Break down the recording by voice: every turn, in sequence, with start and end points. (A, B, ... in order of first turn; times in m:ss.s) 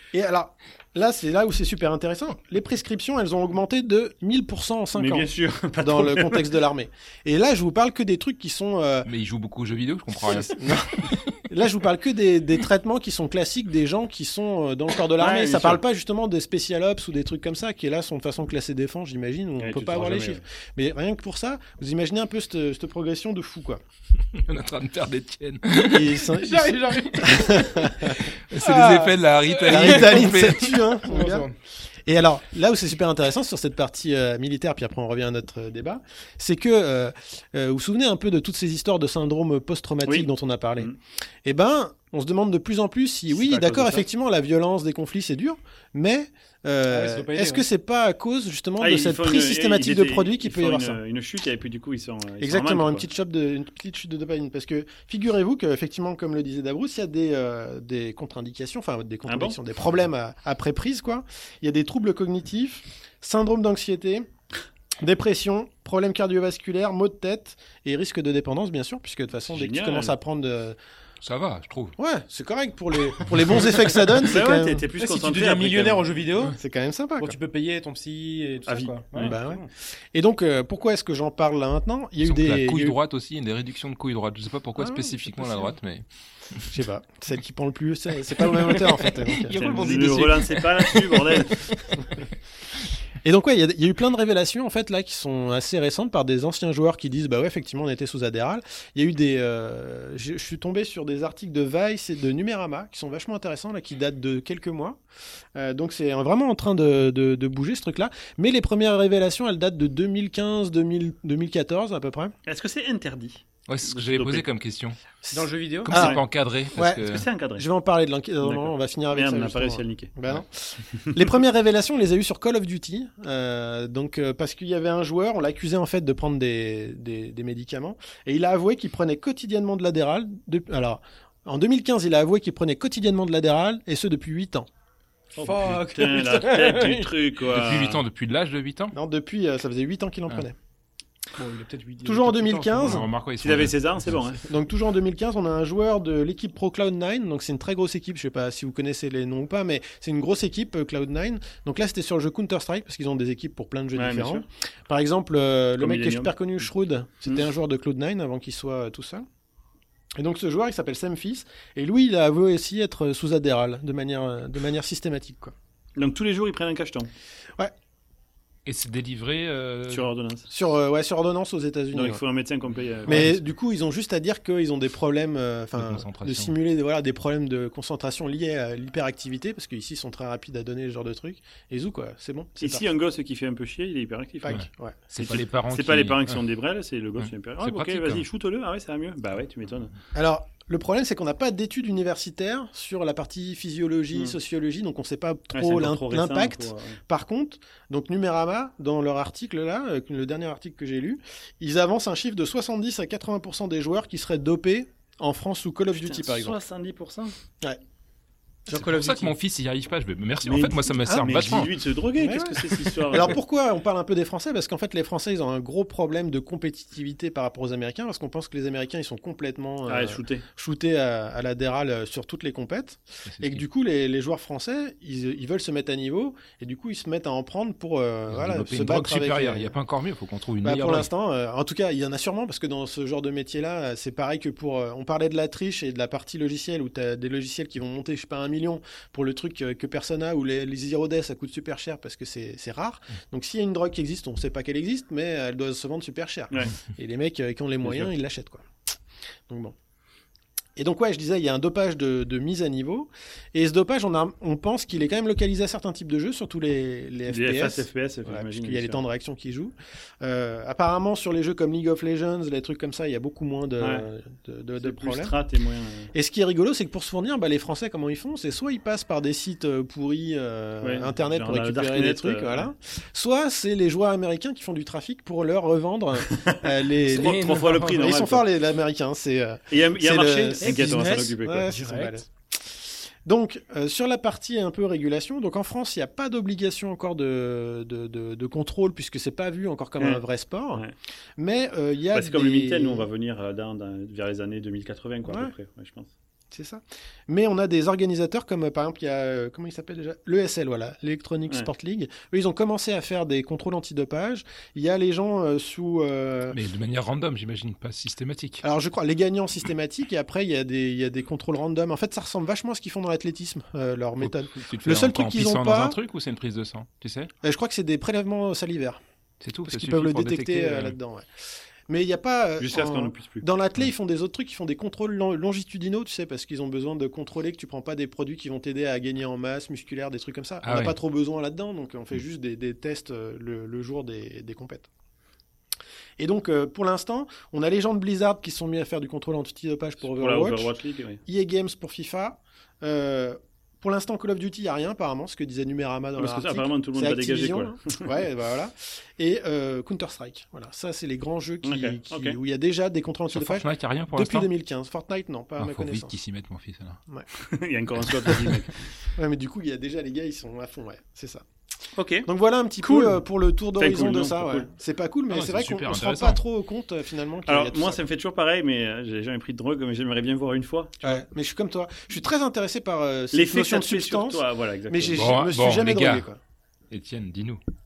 0:00.1-0:09.1 A
0:05.0-0:06.5 B
0:09.1-0:11.1 C
0:10.2-0:23.8 A
0:15.2-0:15.8 B
0:19.6-0:20.4 B
0:24.3-0:26.4 C
0:25.9-0:31.5 A
0:26.4-0:28.0 D
0:28.5-0:30.8 C
0:28.6-0:31.6 D
0:32.1-0:40.9 A
0:40.0-0:41.0 B
0:41.4-0:51.0 A
0:43.3-0:44.1 B
0:46.9-0:47.6 D
0:48.8-0:53.1 B
0:52.4-1:04.3 A
0:59.3-0:59.6 B
1:05.0-1:10.8 A
1:09.5-1:10.1 B
1:11.2-1:12.0 C
1:12.0-1:14.9 A
1:14.2-1:16.1 B
1:15.0-1:16.6 D
1:16.5-1:17.4 A
1:17.2-1:19.7 D
1:18.7-1:19.4 B
1:19.2-1:23.0 A
1:22.2-1:26.0 C
1:24.8-1:25.7 A
1:26.7-1:30.2 A
1:29.2-1:31.2 C
1:29.5-1:31.7 B
1:33.2-1:45.0 A
1:45.6-1:52.3 A
1:52.4-1:54.4 B
1:53.7-1:55.0 C
1:55.2-1:56.2 A
1:55.3-1:55.9 D
1:55.8-1:57.3 C
1:56.0-1:56.2 B
1:56.7-2:14.7 A
1:57.0-1:57.6 B
1:58.4-2:00.1 B
2:15.4-2:18.0 B
2:15.4-2:17.1 D
2:17.5-2:19.0 C
2:18.9-2:20.6 A
2:21.4-2:23.0 D
2:22.0-2:23.1 A
2:22.8-2:23.8 C
2:23.4-2:24.4 B
2:24.4-2:39.2 A
2:34.0-2:34.4 B
2:35.8-2:36.4 B
2:40.2-2:45.5 A
2:46.0-2:47.1 B
2:48.7-2:50.1 C
2:49.9-2:50.5 B
2:50.5-2:52.2 A
2:51.9-2:53.4 B
2:53.0-2:53.4 C
2:53.1-3:02.9 A
2:55.8-2:56.5 C
3:02.6-3:04.6 B
3:04.4-3:05.4 A
3:04.5-3:06.4 C
3:05.2-3:09.9 B
3:07.2-3:08.2 C
3:10.1-3:26.6 A
3:15.5-3:17.0 B
3:26.0-3:27.3 B
3:28.7-3:29.3 A
3:28.7-3:31.8 C
3:30.4-3:33.4 B
3:31.0-3:31.3 A
3:32.2-3:49.7 A
3:39.9-3:40.4 B
3:43.3-3:43.6 C
3:48.3-3:51.1 C
3:50.6-4:08.6 A
4:07.8-4:08.1 B
4:09.5-4:09.7 A
4:10.8-4:25.3 A
4:17.3-4:19.0 B
4:23.8-4:24.1 B
4:24.8-4:26.1 B
4:26.1-4:50.8 A
4:30.8-4:32.7 B
4:36.3-4:38.4 B
4:37.1-4:38.1 D
4:39.7-4:41.7 B
4:40.6-4:42.1 D
4:50.0-4:50.9 B
4:51.4-4:53.1 A
4:52.1-4:56.1 B
4:55.3-4:55.5 A
4:56.5-5:06.6 A
5:06.5-5:08.6 C
5:08.6-5:16.0 A
5:14.2-5:17.3 C
5:17.4-5:19.0 A
5:19.4-5:21.0 C
5:19.7-5:21.3 A
5:21.9-5:34.9 A
5:22.6-5:23.4 B
5:30.6-5:31.0 C
5:36.2-5:40.7 A
5:40.0-5:41.2 B
5:41.3-5:56.1 A
5:46.2-5:48.1 B
5:51.6-5:52.4 B
5:53.3-5:54.5 C
5:55.6-5:57.0 C
5:57.4-5:58.7 B
5:59.1-6:01.4 A
6:02.0-6:02.3 B
6:02.3-6:08.0 A
6:02.8-6:03.1 B
6:03.8-6:04.7 B
6:05.3-6:06.4 C
6:07.5-6:11.2 B
6:11.0-6:16.4 A
6:13.3-6:15.3 B
6:15.1-6:16.3 C
6:16.9-6:17.6 C